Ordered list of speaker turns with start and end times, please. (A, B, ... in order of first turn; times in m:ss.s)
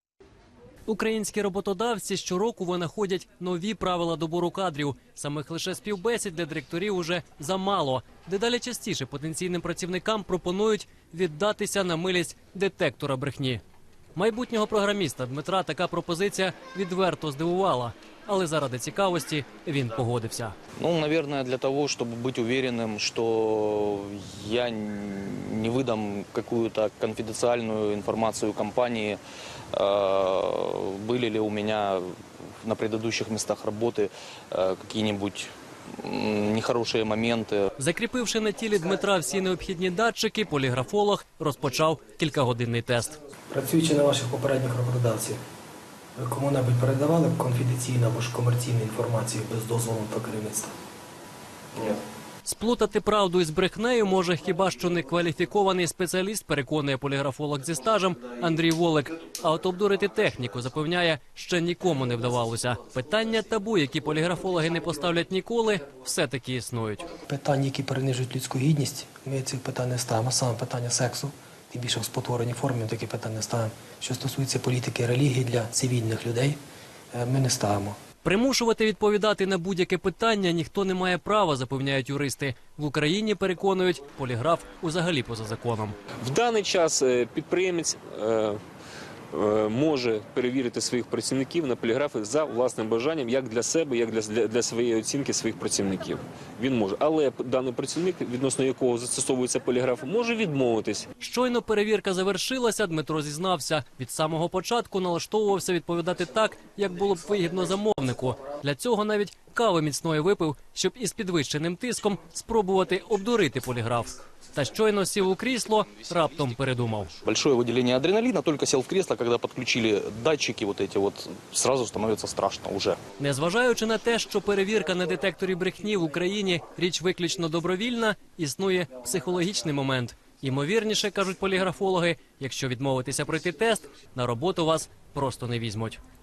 0:00.9-0:13.6 A
0:14.1-0:20.5 A
0:20.8-0:29.2 B
0:29.7-0:32.0 B
0:32.6-0:37.7 B
0:37.8-0:43.2 A
0:43.5-0:45.4 C
0:46.2-0:50.7 C
0:52.4-1:07.1 A
1:07.2-1:16.6 C
1:17.1-1:18.0 C
1:18.2-1:25.9 A
1:26.2-1:28.6 D
1:29.3-1:41.1 D
1:41.2-1:57.1 A
1:57.2-2:03.0 B
2:03.2-2:16.0 A